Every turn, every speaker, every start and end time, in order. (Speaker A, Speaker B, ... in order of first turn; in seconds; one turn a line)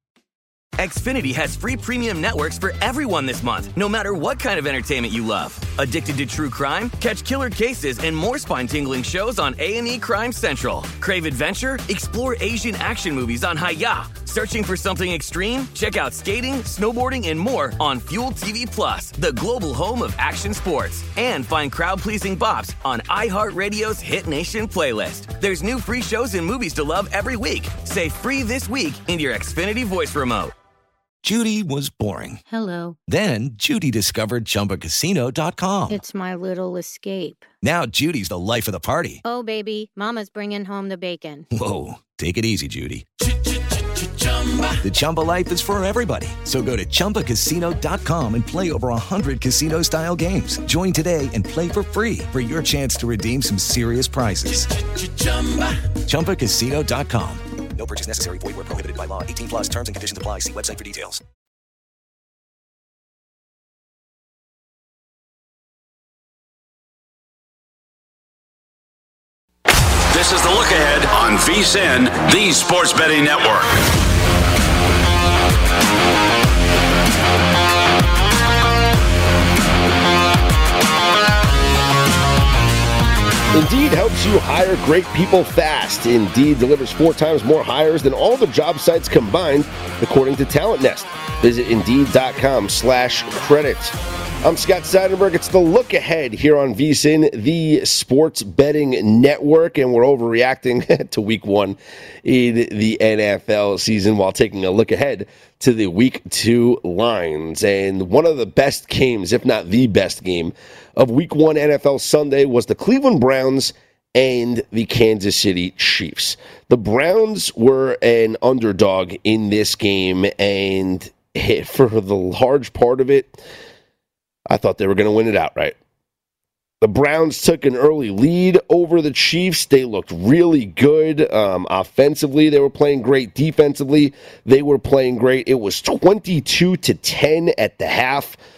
Speaker A: 0.8-30.5
Speaker B: 31.2-32.4
Speaker C: 32.5-33.0
Speaker B: 33.1-36.0
Speaker C: 35.9-37.5
Speaker B: 37.6-39.2
Speaker C: 39.2-41.4
Speaker B: 41.5-43.0
Speaker B: 44.7-57.4
Speaker D: 57.8-61.2
Speaker B: 59.5-59.8
Speaker E: 70.1-73.7
Speaker F: 83.5-123.4
Speaker F: 124.5-125.8
Speaker F: 126.8-138.4